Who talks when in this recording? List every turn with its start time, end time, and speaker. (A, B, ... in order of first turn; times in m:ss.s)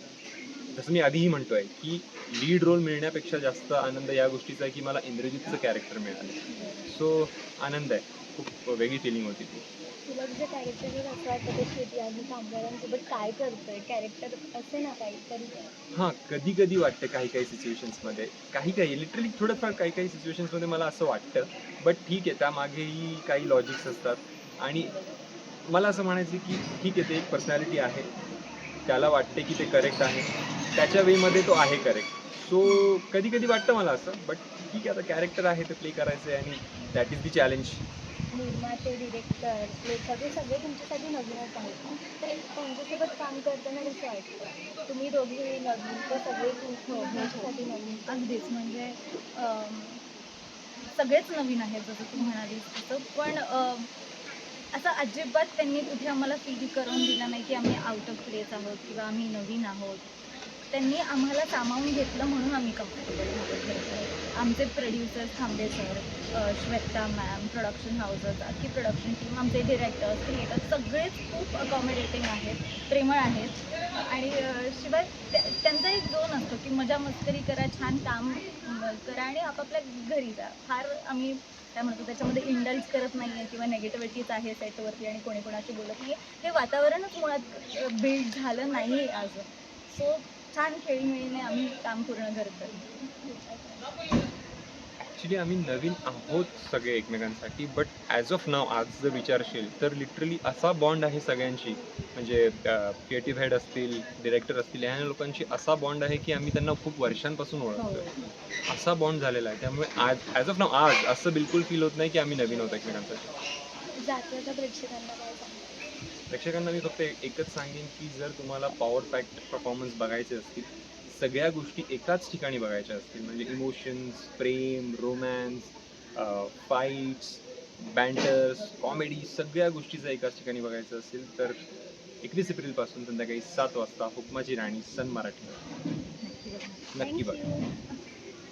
0:00.7-0:09.6 A
0:10.1-0:15.7 B
0:15.9-0:24.9 A
0:25.7-0:28.1 A
0:28.8-0:37.8 A
0:38.3-0:48.3 B
0:46.9-0:50.0 C
0:50.9-0:53.9 C
0:54.7-1:00.1 C
1:00.7-1:32.8 C
1:33.3-1:33.8 B
1:35.0-1:48.1 A
1:47.8-1:48.1 C
1:48.7-1:53.3 A
1:54.0-1:55.8 B
1:56.3-2:11.6 A
2:12.2-2:15.6 A
2:16.2-2:16.9 C
2:16.9-2:17.4 A
2:17.0-2:17.7 B